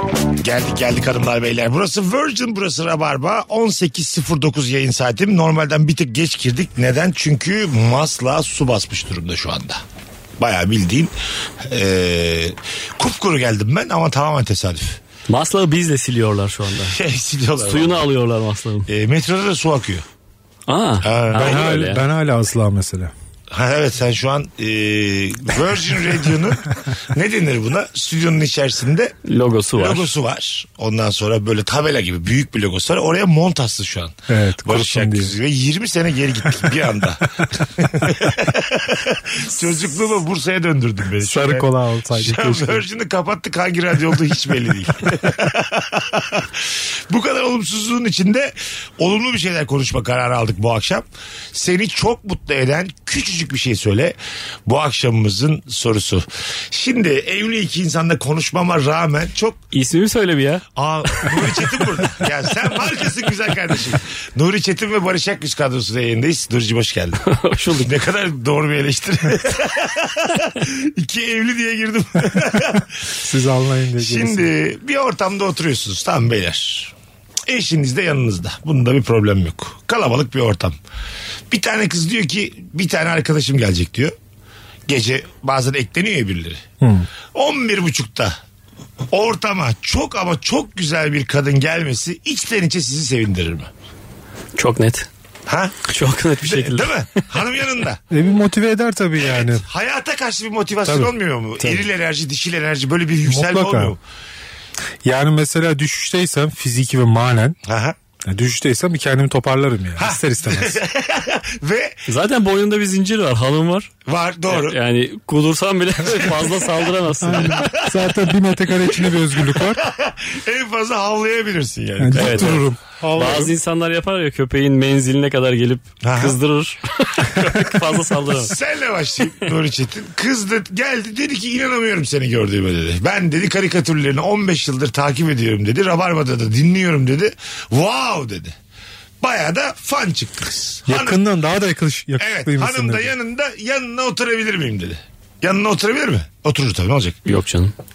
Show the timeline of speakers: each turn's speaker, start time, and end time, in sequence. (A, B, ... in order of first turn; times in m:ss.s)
0:00.4-0:09.8 A
0:10.4-0:15.0 A
0:15.3-0:17.0 B
0:16.9-0:18.0 A
0:17.6-0:18.9 B
0:18.9-0:20.0 A
0:20.7-0:22.0 B
0:21.0-0:21.7 A
0:21.3-0:23.1 C
0:23.5-0:29.2 A
0:29.3-0:30.1 B
0:29.8-0:59.6 A
0:34.3-0:35.3 C
0:41.2-0:42.8 C
0:59.7-1:01.6 B
1:00.8-1:07.2 A
1:07.2-1:07.9 B
1:07.8-1:12.9 A
1:13.1-1:14.5 C
1:14.0-1:16.9 A
1:17.5-1:20.8 A
1:21.5-1:24.1 A
1:24.9-1:26.6 A
1:26.8-1:27.1 C
1:27.3-1:28.4 A
1:29.1-1:33.7 A
1:34.6-1:35.1 B
1:35.5-1:35.9 A
1:35.9-1:37.2 B
1:36.4-1:38.0 A
1:38.1-1:39.6 C
1:39.2-1:44.0 A
1:40.8-1:41.1 C
1:41.6-1:41.9 B
1:43.3-1:44.0 C
1:45.0-1:47.6 C
1:47.7-1:48.0 A
1:48.2-1:50.8 C
1:50.0-1:52.0 A
1:52.1-1:53.9 B
1:54.1-1:54.8 A
1:54.5-1:57.6 B
1:56.0-1:56.6 A
1:57.2-1:59.8 C
1:57.4-1:58.1 A
1:59.5-2:02.7 A
2:02.0-2:03.5 C
2:02.2-2:02.6 B
2:03.2-2:08.5 B
2:06.0-2:06.4 A
2:08.2-2:18.6 A
2:19.2-2:21.2 A
2:20.9-2:23.1 C
2:22.2-2:27.2 A
2:27.3-2:27.7 B